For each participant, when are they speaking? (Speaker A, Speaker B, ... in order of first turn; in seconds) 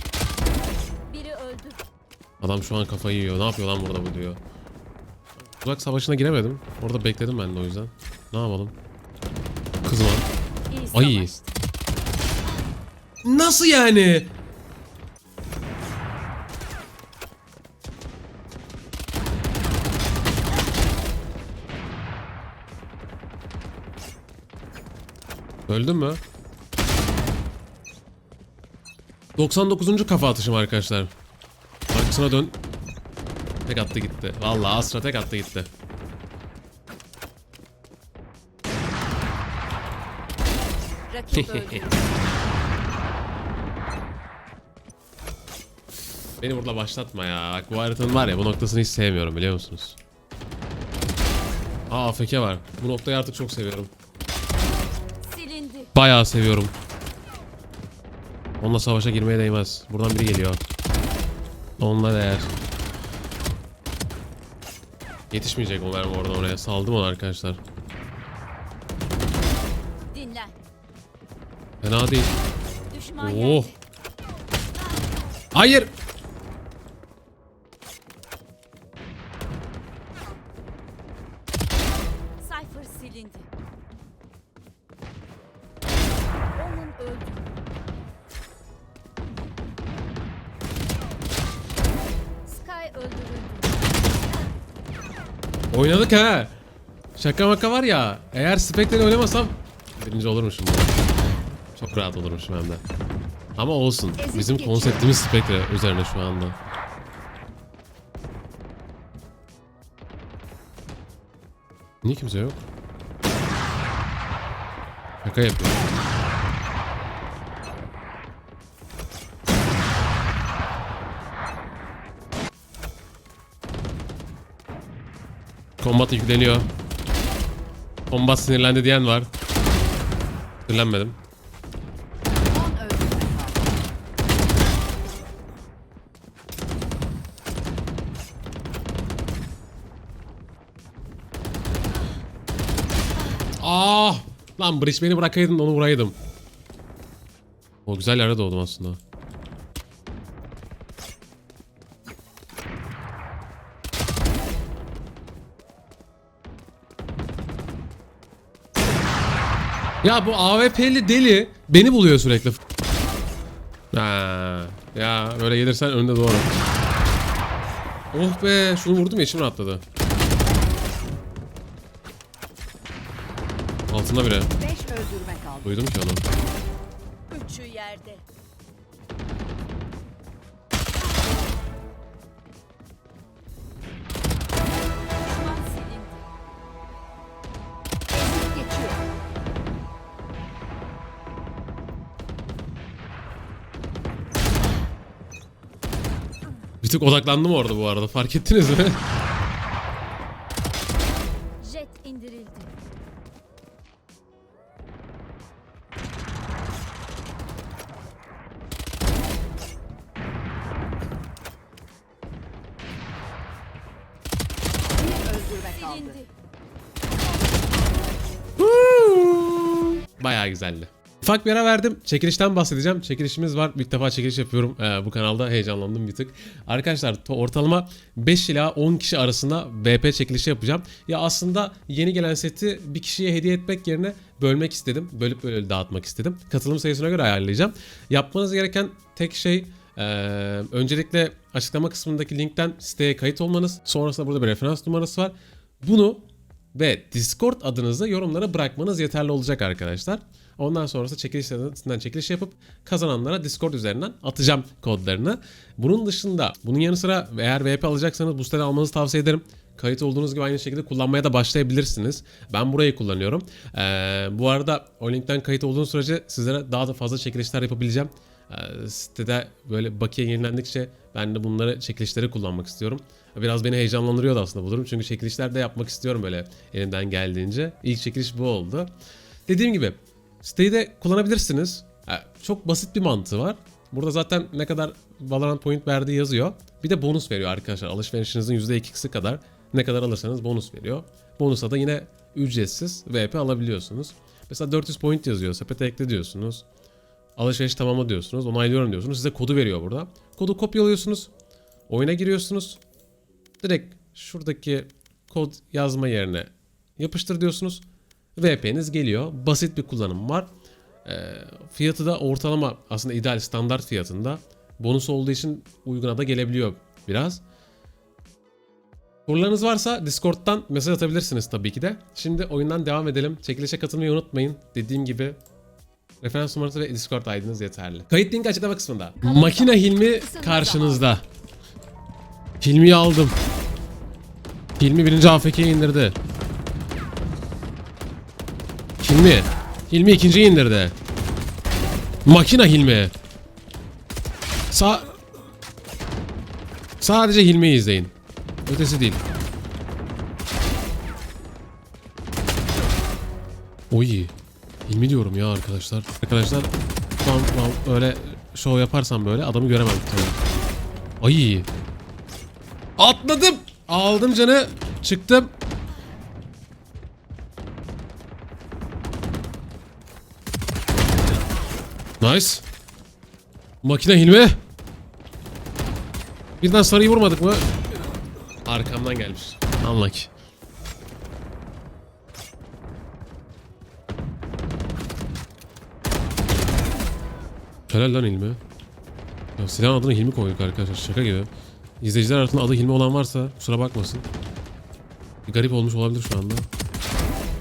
Speaker A: 1.1-1.8, 10.7-11.6, 41.1-42.0, 55.2-55.9, 70.1-70.6, 72.9-73.8, 82.4-83.5, 86.5-87.5, 92.5-93.8, 177.3-178.2, 185.2-186.3, 201.6-202.7, 215.7-216.3
Speaker B: 2.4-4.4, 5.6-8.8, 9.8-10.3, 10.9-11.3, 13.2-14.3, 25.7-26.2, 29.4-31.1, 31.9-32.6, 33.7-35.7, 41.3-41.9, 46.4-50.0, 51.9-53.9, 55.9-56.7, 58.6-60.6, 61.8-62.5, 65.3-67.6, 71.8-72.3, 73.2-73.7, 75.5-75.9, 95.7-96.5, 97.2-101.0, 101.7-102.8, 103.6-106.6, 112.0-112.6, 115.2-115.8, 125.8-126.7, 128.1-129.3, 130.7-131.2, 143.6-146.2, 147.9-149.0, 160.0-162.6, 163.9-166.6, 168.1-169.8, 173.9-174.5, 175.6-176.2, 196.8-199.0, 218.6-278.9, 279.5-296.7, 297.4-301.3, 301.9-302.8, 303.6-310.5, 311.0-317.4, 319.3-325.4, 326.2-331.2, 332.6-333.4, 334.8-336.2, 339.0-340.9, 342.2-343.1, 344.7-345.1, 347.0-348.1, 348.7-349.2, 353.9-354.3, 354.9-360.4, 361.2-361.7, 363.0-365.5, 372.2-372.6, 373.8-374.6, 376.6-377.7, 378.7-380.3, 387.9-388.6, 389.6-391.5, 392.0-394.3, 395.4-396.7
Speaker C: 104.2-105.1, 132.5-133.7, 174.6-175.7, 188.1-189.0, 214.9-216.2, 329.2-331.1